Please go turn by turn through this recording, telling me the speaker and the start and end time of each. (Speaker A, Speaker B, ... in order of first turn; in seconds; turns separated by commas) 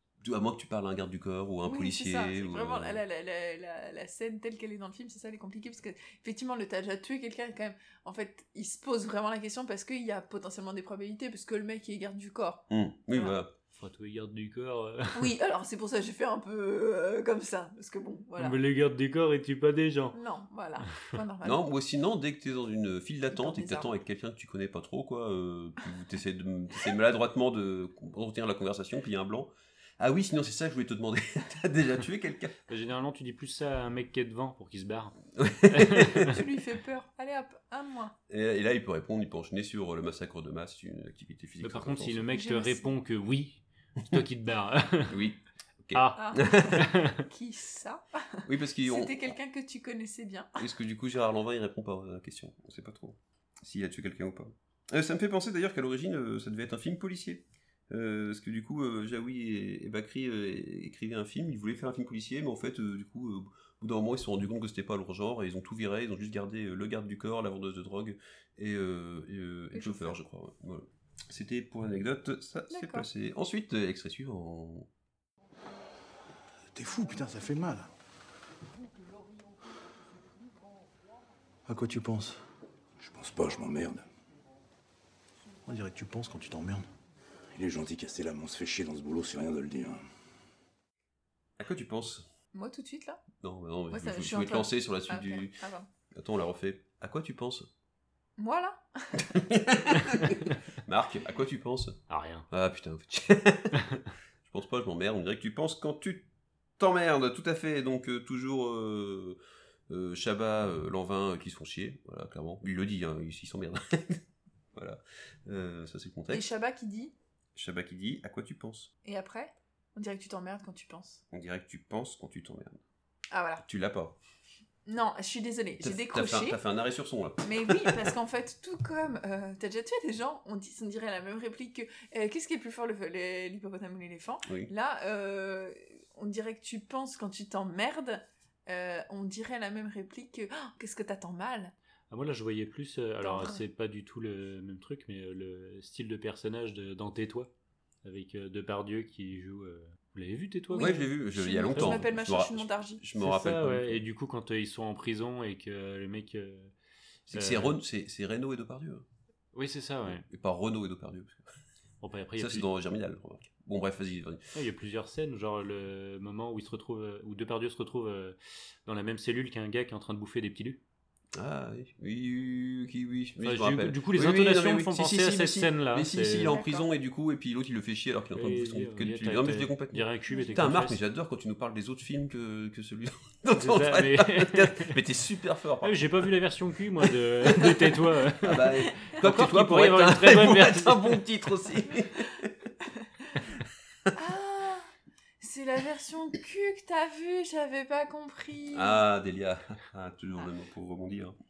Speaker A: 0.2-3.0, Speaker B: 1.6-13.3, Speaker A: 12.7-13.5, Speaker C: 13.7-15.3, Speaker B: 15.1-18.6, Speaker C: 18.4-20.1, Speaker B: 20.1-21.6, Speaker A: 21.4-32.5, Speaker B: 23.3-23.9, Speaker C: 32.7-35.2, Speaker A: 35.4-36.4, Speaker C: 35.7-36.2, Speaker B: 36.2-38.1, Speaker A: 38.3-42.2, Speaker C: 41.6-45.2, Speaker B: 42.3-42.9, Speaker A: 45.1-46.8, Speaker C: 45.9-46.2, Speaker B: 46.1-50.5, Speaker C: 46.8-47.2, Speaker A: 48.5-49.3, Speaker A: 50.6-74.9, Speaker B: 69.7-70.2, Speaker B: 72.7-73.1, Speaker D: 76.7-77.9, Speaker D: 81.7-82.4, Speaker E: 83.0-84.0, Speaker D: 85.7-86.8, Speaker E: 87.5-90.0, Speaker A: 91.6-92.2, Speaker B: 92.5-93.2, Speaker A: 93.4-95.6, Speaker B: 93.9-95.9, Speaker A: 96.1-97.7, Speaker B: 98.4-99.3, Speaker A: 99.3-106.2, Speaker C: 102.1-102.5, Speaker A: 106.8-109.4, Speaker A: 109.9-114.2, Speaker A: 114.7-116.5, Speaker B: 116.3-117.1, Speaker A: 117.5-118.9, Speaker B: 119.0-121.2, Speaker A: 121.3-122.8, Speaker B: 123.3-123.6, Speaker A: 123.6-124.1, Speaker B: 124.8-126.6, Speaker A: 125.8-128.1, Speaker B: 127.4-141.7, Speaker C: 142.1-147.5, Speaker B: 143.2-143.6, Speaker C: 148.0-151.1, Speaker B: 150.7-153.0, Speaker A: 150.8-154.0, Speaker C: 151.7-152.1, Speaker C: 153.2-156.7, Speaker A: 157.3-159.1, Speaker C: 157.3-157.8, Speaker C: 159.5-160.2, Speaker A: 160.1-161.4, Speaker C: 162.0-162.7, Speaker A: 162.4-164.4, Speaker C: 164.5-170.8, Speaker A: 171.3-186.3, Speaker C: 173.4-176.6, Speaker B: 176.4-176.9, Speaker C: 178.3-181.0, Speaker B: 180.3-180.6, Speaker C: 183.5-184.9, Speaker C: 185.8-191.2, Speaker A: 187.4-192.5, Speaker B: 193.0-193.3, Speaker B: 194.1-194.9, Speaker B: 195.4-199.0, Speaker A: 198.7-201.3